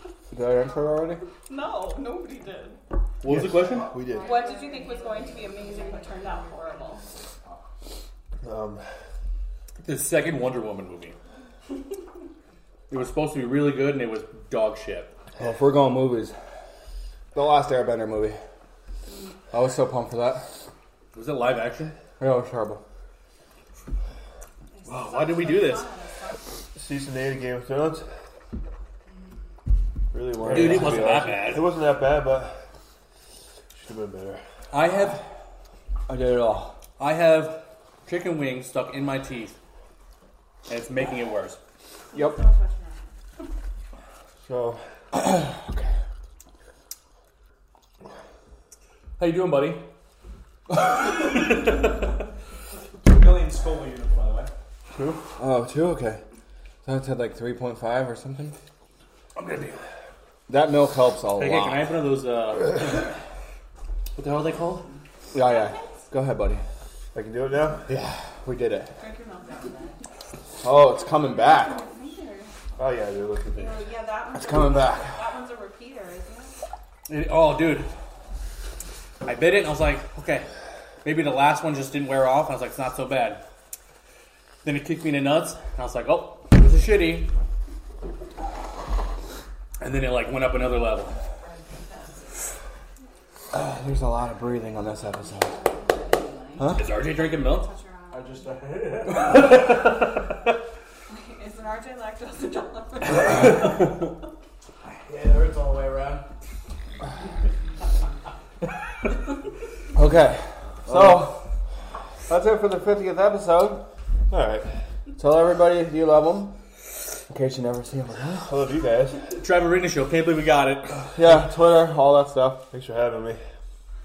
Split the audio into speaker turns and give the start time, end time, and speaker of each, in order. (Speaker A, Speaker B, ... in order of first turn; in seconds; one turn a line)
Speaker A: 0.3-1.2
Speaker B: 1.4-2.8
Speaker C: 3.2-4.0
Speaker D: 3.2-4.4
Speaker E: 3.7-7.6
Speaker B: 4.2-7.0
Speaker D: 8.4-8.8
Speaker C: 9.8-11.2
Speaker C: 12.9-15.2
Speaker A: 15.4-16.3
Speaker A: 17.3-18.4
Speaker A: 19.5-20.5
Speaker C: 21.1-21.9
Speaker A: 22.2-22.8
Speaker B: 24.7-26.5
Speaker C: 24.9-25.9
Speaker D: 26.7-28.1
Speaker D: 30.1-32.5
Speaker A: 30.3-31.2
Speaker C: 30.5-31.7
Speaker D: 33.7-34.4
Speaker C: 34.7-35.2
Speaker A: 36.1-36.8
Speaker C: 37.0-39.5
Speaker C: 40.7-41.6
Speaker B: 42.1-43.1
Speaker A: 42.1-42.4
Speaker D: 44.4-44.8
Speaker A: 45.1-45.9
Speaker C: 49.2-49.9
Speaker C: 51.1-51.5
Speaker E: 53.0-54.5
Speaker D: 54.9-55.2
Speaker A: 55.4-56.2
Speaker A: 56.8-58.5
Speaker C: 59.4-59.8
Speaker A: 60.5-61.9
Speaker C: 61.3-63.1
Speaker C: 64.2-64.9
Speaker A: 65.3-66.6
Speaker B: 65.4-66.0
Speaker D: 67.1-67.9
Speaker A: 67.9-68.9
Speaker B: 69.0-69.8
Speaker E: 69.5-69.9
Speaker A: 70.6-71.8
Speaker B: 71.1-72.5
Speaker D: 72.8-73.8
Speaker B: 73.5-76.5
Speaker A: 74.3-75.2
Speaker C: 77.1-77.9
Speaker C: 79.2-80.5
Speaker C: 81.0-83.4
Speaker C: 84.6-87.3
Speaker C: 89.8-91.2
Speaker B: 91.4-92.4
Speaker A: 93.5-95.6
Speaker B: 95.6-98.9
Speaker E: 95.8-96.6
Speaker A: 96.6-96.9
Speaker C: 96.7-97.7
Speaker E: 98.1-99.4
Speaker C: 99.2-99.7
Speaker B: 101.1-103.9
Speaker E: 104.8-106.2
Speaker A: 109.9-111.5
Speaker D: 110.9-111.1
Speaker A: 112.3-113.8
Speaker D: 114.3-114.7
Speaker A: 115.2-116.6
Speaker A: 117.3-118.5
Speaker D: 118.4-119.3
Speaker C: 119.4-121.1
Speaker A: 121.1-122.7
Speaker D: 122.7-123.4